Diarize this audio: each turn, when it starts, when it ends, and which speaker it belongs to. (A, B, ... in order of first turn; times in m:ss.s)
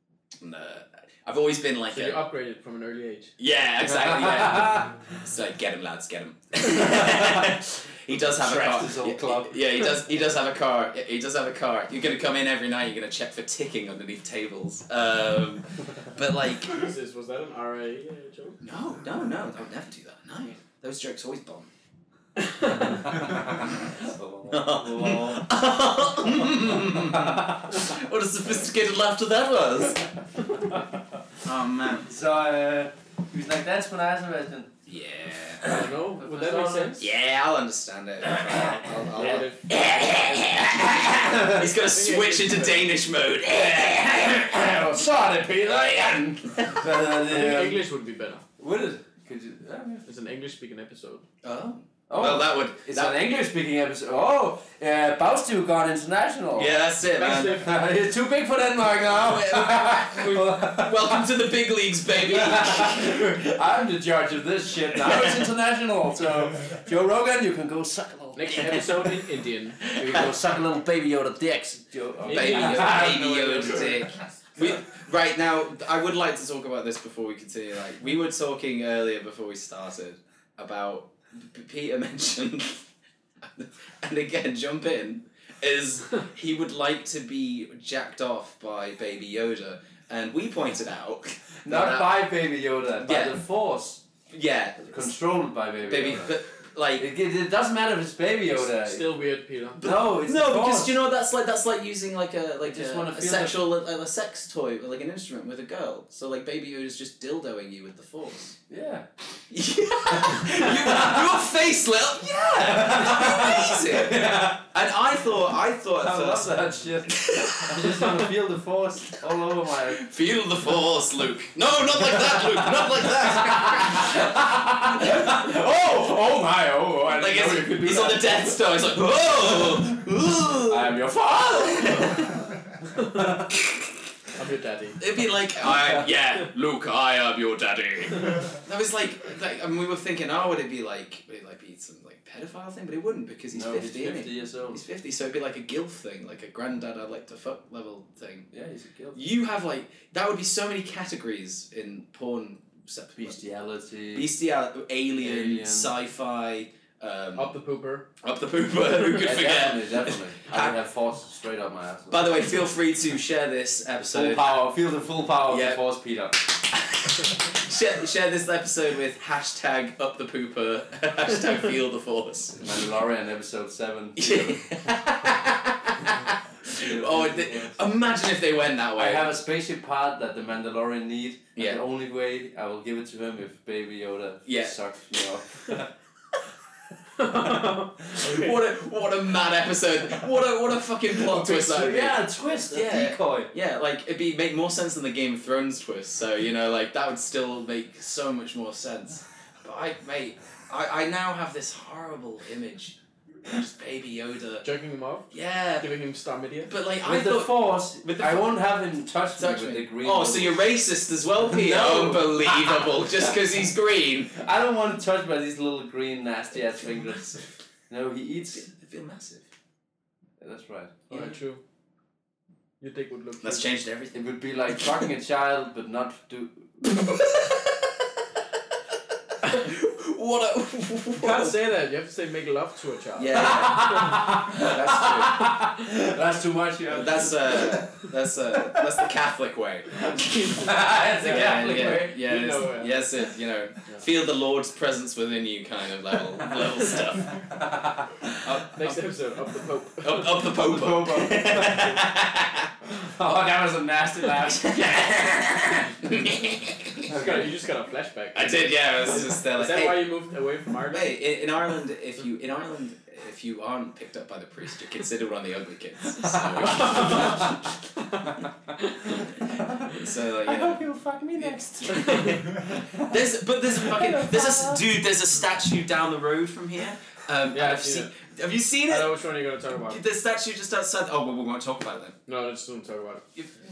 0:00.4-0:02.2 A
0:01.9-0:03.3 B
0:03.4-0:16.8 A
0:04.0-0:05.0 C
0:07.0-0:07.5 C
0:08.4-0:09.6 C
0:16.7-0:18.6 B
0:18.6-0:21.7 A
0:22.5-0:23.0 B
0:23.1-0:25.5 C
0:24.5-0:30.1 A
0:26.8-0:27.6 C
0:31.4-0:32.1 A
0:32.1-0:34.7 C
0:34.9-0:35.8 A
0:35.6-0:37.0 C
0:35.6-0:37.1 B
0:37.0-0:44.5 A
0:39.1-0:42.9 B
0:39.1-0:39.5 C
0:40.8-0:41.7 C
0:43.5-0:47.8 C
0:47.3-0:48.4 B
0:48.6-0:50.1 C
0:50.1-0:51.2 B
0:51.4-0:53.2 A
0:52.1-0:56.8 C
0:56.6-0:57.6 A
0:57.2-0:57.7 B
0:57.3-1:01.3 C
0:59.0-1:03.4 A
1:02.1-1:08.8 C
1:04.9-1:05.5 A
1:08.4-1:09.9 B
1:08.5-1:09.3 A
1:09.8-1:10.3 A
1:10.0-1:14.1 C
1:12.2-1:14.0 B
1:12.3-1:22.9 A
1:23.4-1:32.2 A
1:31.6-1:34.0 C
1:33.0-1:33.4 A
1:34.3-1:35.1 A
1:34.9-1:36.4 C
1:35.9-1:37.1 A
1:37.0-1:39.1 C
1:38.7-1:39.8 B
1:39.8-1:48.6 A
1:39.8-1:40.9 C
1:42.6-1:43.6 C
1:48.7-1:49.1 C
1:49.5-1:58.0 A
1:50.2-1:51.4 C
1:52.6-1:54.7 C
1:56.0-2:00.1 C
1:59.9-2:04.4 A
2:02.0-2:08.6 C
2:04.9-2:05.5 A
2:07.1-2:12.5 A
2:10.7-2:12.2 C
2:13.0-2:13.5 C
2:13.5-2:13.9 A
2:14.4-2:15.0 B
2:15.0-2:28.5 A
2:23.5-2:24.8 C
2:28.5-2:29.2 C
2:29.2-2:33.4 A
2:33.2-2:34.3 C
2:34.1-2:37.5 A
2:35.2-2:35.9 C
2:37.4-2:38.1 B
2:38.2-2:40.8 A
2:39.2-2:42.5 C
2:42.1-2:44.6 A
2:44.1-2:46.5 C
2:45.5-2:45.8 A
2:46.7-2:52.7 A
2:52.6-2:54.8 C
2:54.2-2:59.3 A
2:56.7-2:57.8 C
2:59.0-3:05.9 C
3:01.6-3:01.8 A
3:04.5-3:04.8 A
3:07.2-3:08.6 B
3:08.2-3:24.7 A
3:11.2-3:13.5 C
3:24.6-3:25.3 B
3:25.3-3:25.9 A
3:25.8-3:26.7 B
3:26.7-3:28.5 A
3:27.0-3:30.6 C
3:29.4-3:34.3 A
3:31.5-3:33.4 C
3:34.3-3:38.7 C
3:38.5-3:39.5 A
3:40.4-3:41.1 C
3:41.1-3:41.4 A
3:41.1-3:41.6 B
3:42.8-3:43.7 B
3:43.4-3:44.2 A
3:44.1-3:46.8 C
3:46.8-3:48.1 A
3:49.4-3:51.6 A
3:51.2-3:53.7 B
3:53.2-3:55.5 A
3:53.3-3:58.9 C
3:56.9-4:00.6 A
4:00.1-4:03.1 B
4:00.5-4:02.2 C
4:01.2-4:07.4 A
4:07.4-4:08.1 C
4:08.4-4:09.0 A
4:08.7-4:10.6 B
4:10.0-4:12.7 A
4:10.6-4:12.0 C
4:13.0-4:15.0 C
4:14.5-4:17.1 A
4:17.1-4:17.5 C
4:17.1-4:21.2 B
4:18.4-4:20.0 A
4:20.9-4:27.7 A
4:26.7-4:27.5 C
4:26.8-4:27.5 B
4:29.5-4:33.2 C
4:29.9-4:39.2 A
4:32.0-4:32.4 B
4:33.7-4:34.8 C
4:37.5-4:38.2 B
4:38.9-4:40.0 B
4:39.9-4:42.2 A
4:42.3-4:43.2 B